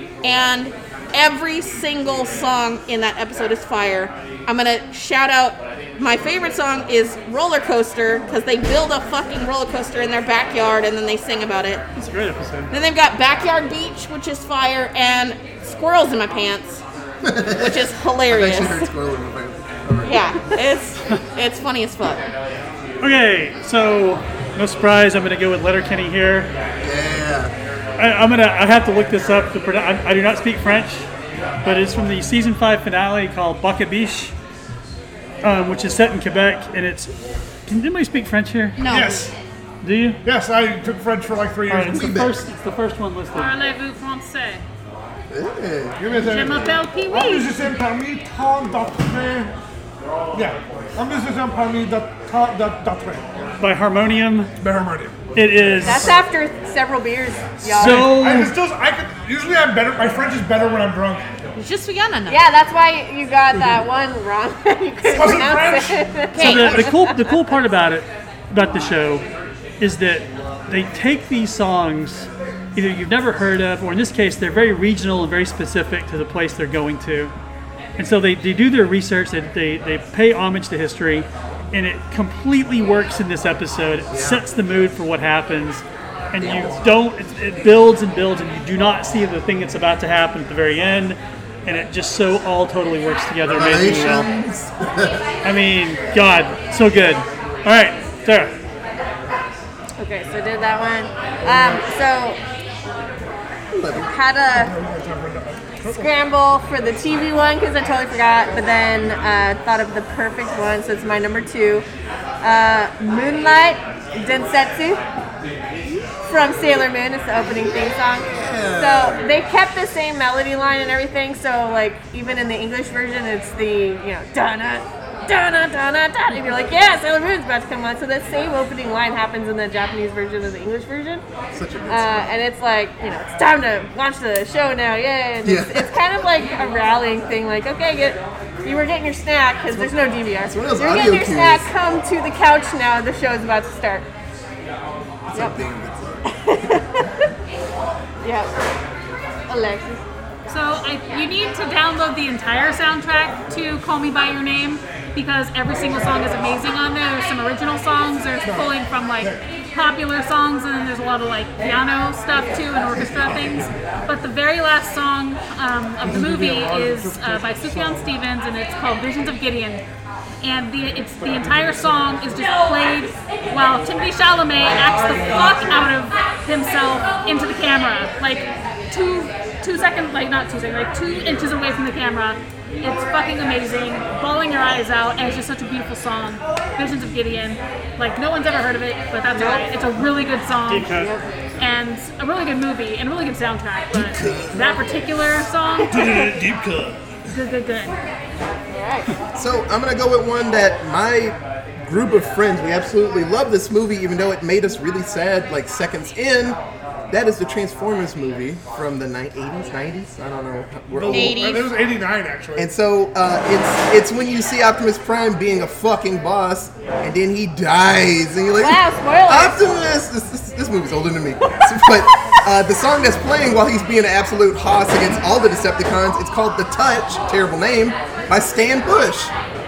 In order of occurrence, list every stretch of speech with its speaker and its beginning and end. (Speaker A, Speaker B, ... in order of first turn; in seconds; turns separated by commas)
Speaker A: 0.2-11.8, Speaker B: 12.0-12.7, Speaker A: 12.7-16.8, Speaker C: 17.2-20.3, Speaker A: 17.6-18.9, Speaker A: 20.1-22.2, Speaker B: 23.0-26.5, Speaker C: 26.8-27.5, Speaker B: 28.0-31.1, Speaker B: 31.6-34.3, Speaker B: 35.4-37.1, Speaker B: 37.7-38.8, Speaker A: 38.8-39.2, Speaker D: 38.8-39.3, Speaker B: 39.8-40.2, Speaker D: 40.2-42.2, Speaker B: 41.7-43.5, Speaker C: 41.9-42.5, Speaker E: 43.3-44.6, Speaker C: 45.3-46.0, Speaker D: 46.0-49.5, Speaker E: 46.2-47.6, Speaker D: 50.3-53.5, Speaker B: 53.6-54.5, Speaker D: 54.6-56.2, Speaker B: 55.4-56.2, Speaker F: 55.8-58.2, Speaker D: 57.6-61.2, Speaker B: 57.7-58.5, Speaker A: 61.6-62.4, Speaker F: 62.3-67.0, Speaker D: 65.0-66.0, Speaker A: 66.3-66.9, Speaker B: 66.4-69.2, Speaker B: 69.8-77.3, Speaker B: 78.0-94.3, Speaker C: 84.1-84.4, Speaker C: 86.4-86.8, Speaker C: 93.5-95.2, Speaker B: 95.4-98.5, Speaker F: 100.0-102.4, Speaker C: 101.5-101.8, Speaker C: 103.8-104.1, Speaker F: 103.9-104.7, Speaker D: 104.5-106.1, Speaker F: 105.8-111.8, Speaker F: 112.4-115.0, Speaker F: 116.3-131.2, Speaker C: 118.3-119.2, Speaker C: 131.5-132.3, Speaker F: 131.9-144.1, Speaker C: 135.4-135.9, Speaker C: 139.7-141.7, Speaker C: 145.3-146.2, Speaker F: 146.3-147.1, Speaker F: 148.2-148.5, Speaker F: 149.5-150.0, Speaker E: 150.5-169.8, Speaker D: 158.4-159.4, Speaker C: 163.2-163.6, Speaker D: 166.0-168.1, Speaker E: 170.4-190.9, Speaker F: 189.3-189.6, Speaker B: 190.7-191.1, Speaker E: 191.6-196.3, Speaker C: 193.9-194.7, Speaker D: 195.9-197.0, Speaker E: 197.3-197.9, Speaker F: 198.7-199.1, Speaker C: 199.3-206.6, Speaker C: 207.1-211.6, Speaker D: 210.9-212.7, Speaker A: 211.1-211.7, Speaker C: 212.6-229.3, Speaker F: 218.6-219.6, Speaker F: 221.6-222.0